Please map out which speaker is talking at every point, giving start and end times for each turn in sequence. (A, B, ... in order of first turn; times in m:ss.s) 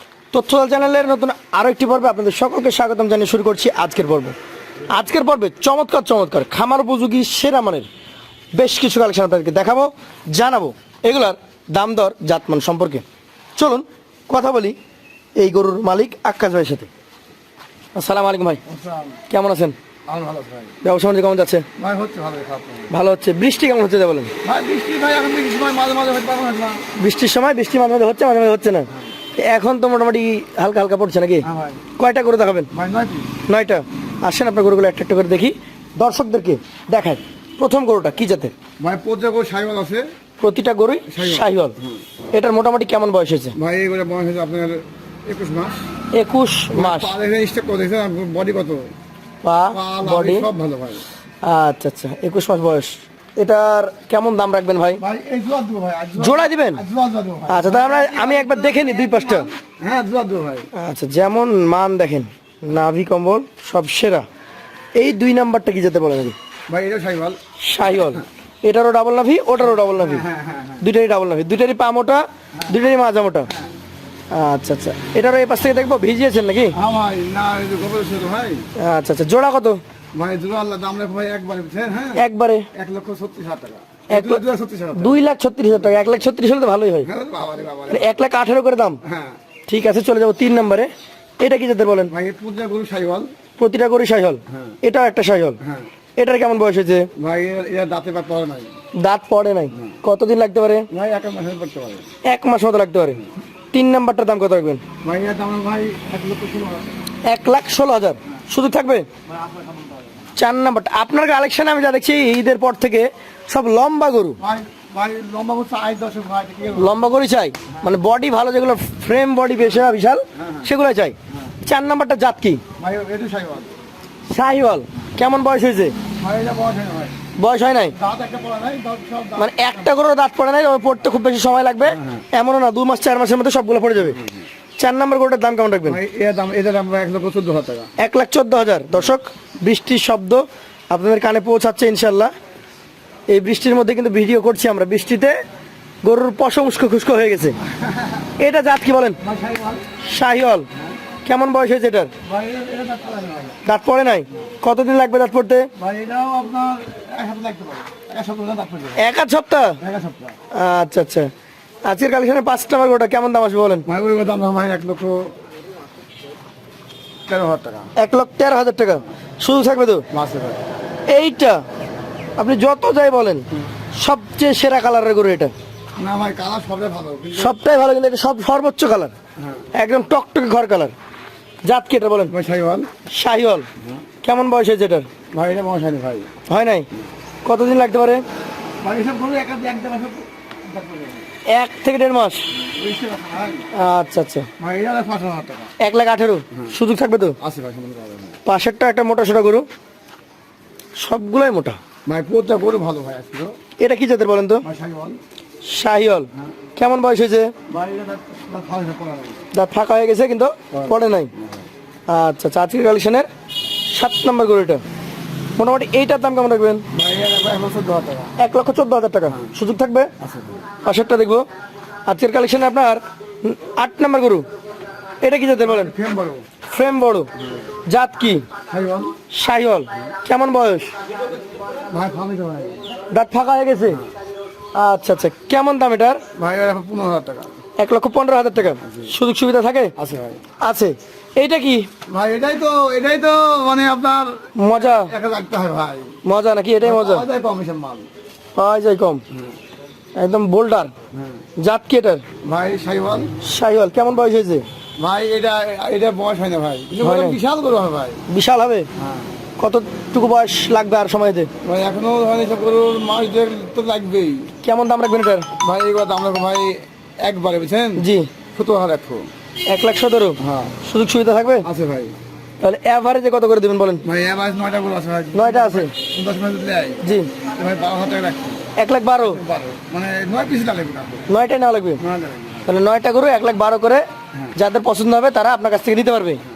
0:00.3-0:04.4 A
0:04.9-0:07.9 A
0:08.5-0:13.0 A
0:13.6-0:14.8 A
0:15.4-0:16.9 A
0:18.0-0:18.6 A
0:18.7-0:19.2 B
0:19.3-0:19.8 A
0:20.1-0:20.8 B
0:20.8-0:21.7 A
0:21.8-0:22.9 B
0:22.9-0:24.3 A
0:24.4-0:26.8 B
0:27.0-0:32.7 A
0:31.4-0:31.8 B
0:32.7-0:33.4 B
0:33.5-0:38.5 A
0:38.8-0:40.1 B
0:40.4-0:41.8 A
0:41.1-0:42.0 B
0:42.3-0:43.6 A
0:43.6-0:45.8 B
0:46.1-0:47.1 A
0:46.7-0:48.9 B
0:49.4-0:50.5 A
0:49.7-0:51.0 B
0:51.4-0:55.0 A
0:55.0-1:00.7 B
0:56.2-0:56.8 A
0:57.5-0:59.5 A
1:00.7-1:04.2 A
1:05.0-1:06.4 A
1:06.7-1:08.2 B
1:07.6-1:10.3 A
1:10.0-1:10.8 B
1:10.8-1:13.5 A
1:14.3-1:16.8 A
1:16.7-1:18.6 B
1:18.8-1:19.8 A
1:20.1-1:22.2 B
1:22.2-1:22.7 A
1:22.7-1:25.2 B
1:24.1-1:24.4 A
1:25.0-1:27.1 A
1:27.0-1:28.1 B
1:27.9-1:29.0 A
1:29.0-1:29.4 B
1:29.7-1:32.1 A
1:32.1-1:33.3 B
1:33.6-1:35.6 A
1:35.6-1:35.9 B
1:36.2-1:37.1 A
1:37.2-1:38.7 B
1:39.0-1:40.9 A
1:40.9-1:42.1 B
1:42.2-1:44.8 A
1:45.0-1:47.0 B
1:47.3-1:49.1 A
1:49.3-1:50.1 B
1:50.4-1:54.4 A
1:54.4-1:57.0 B
1:56.8-2:02.6 A
2:00.4-2:00.7 B
2:02.8-2:03.7 B
2:04.3-2:06.0 A
2:06.2-2:07.2 B
2:07.4-2:08.0 A
2:07.9-2:09.9 B
2:09.4-2:14.2 A
2:11.9-2:12.2 B
2:14.8-2:16.0 A
2:15.9-2:17.9 B
2:18.0-2:22.3 A
2:23.3-2:25.4 A
2:26.0-2:27.6 A
2:27.8-2:28.1 B
2:28.4-2:29.2 A
2:29.2-2:29.9 B
2:30.0-2:30.7 A
2:31.2-2:32.1 A
2:32.2-2:33.6 B
2:33.6-2:35.7 A
2:35.8-2:39.1 B
2:39.0-2:39.8 A
2:39.8-2:40.4 B
2:40.5-2:41.3 A
2:41.9-2:43.9 A
2:43.9-2:45.3 B
2:47.3-2:47.9 B
2:48.0-2:50.0 A
2:50.1-2:50.6 B
2:51.1-2:51.6 A
2:52.4-2:53.4 A
2:54.0-2:55.5 A
2:56.0-2:57.6 B
2:57.4-2:59.1 A
2:59.4-2:59.6 B
2:59.7-3:00.9 A
3:01.7-3:02.3 A
3:02.3-3:02.9 B
3:03.1-3:03.7 A
3:04.2-3:05.1 A
3:05.3-3:06.3 B
3:06.5-3:06.9 A
3:07.4-3:08.2 A
3:08.8-3:11.3 B
3:11.5-3:12.4 A
3:12.6-3:13.7 B
3:13.7-3:14.5 A
3:14.6-3:15.7 B
3:15.8-3:17.4 A
3:17.4-3:18.4 B
3:18.4-3:19.7 A
3:21.0-3:21.8 A
3:22.1-3:23.6 B
3:23.8-3:24.6 A
3:24.6-3:25.2 B
3:25.7-3:27.5 A
3:27.7-3:29.4 B
3:29.5-3:31.3 A
3:30.7-3:31.7 B
3:32.1-3:33.3 A
3:33.9-3:34.8 A
3:35.6-3:36.8 A
3:36.9-3:38.4 B
3:38.4-3:40.1 A
3:40.2-3:40.6 B
3:40.8-3:41.4 A
3:42.1-3:44.4 A
3:45.2-3:45.9 A
3:45.6-3:46.5 B
3:46.7-3:47.3 A
3:47.9-3:48.5 A
3:48.7-3:49.1 B
3:49.3-3:50.9 A
3:51.9-3:52.8 B
3:53.1-3:54.0 A
3:54.8-3:56.2 A
3:56.4-3:57.5 B
3:57.8-3:59.9 A
3:58.8-3:59.1 B
4:00.0-4:00.4 B
4:00.6-4:01.9 A
4:02.1-4:06.2 B
4:04.6-4:05.1 A
4:06.2-4:07.3 A
4:06.8-4:08.1 B
4:08.6-4:09.2 A
4:10.2-4:10.9 A
4:11.1-4:11.4 B
4:11.6-4:12.2 A
4:12.4-4:13.4 B
4:13.4-4:14.7 A
4:15.0-4:18.2 B
4:17.0-4:17.4 A
4:18.3-4:18.9 A
4:19.0-4:19.3 B
4:19.6-4:21.5 A
4:21.6-4:24.5 B
4:24.6-4:25.5 A
4:25.6-4:29.3 B
4:28.0-4:28.3 A
4:29.7-4:31.7 A
4:30.4-4:30.8 B
4:31.6-4:32.2 B
4:32.6-4:34.0 A
4:34.0-4:37.0 B
4:35.3-4:35.9 A
4:37.0-4:37.3 A
4:37.6-4:38.6 B
4:38.8-4:39.4 A
4:39.2-4:41.3 B
4:41.3-4:42.0 A
4:42.0-4:42.7 B
4:42.7-4:44.0 A
4:44.6-4:46.4 A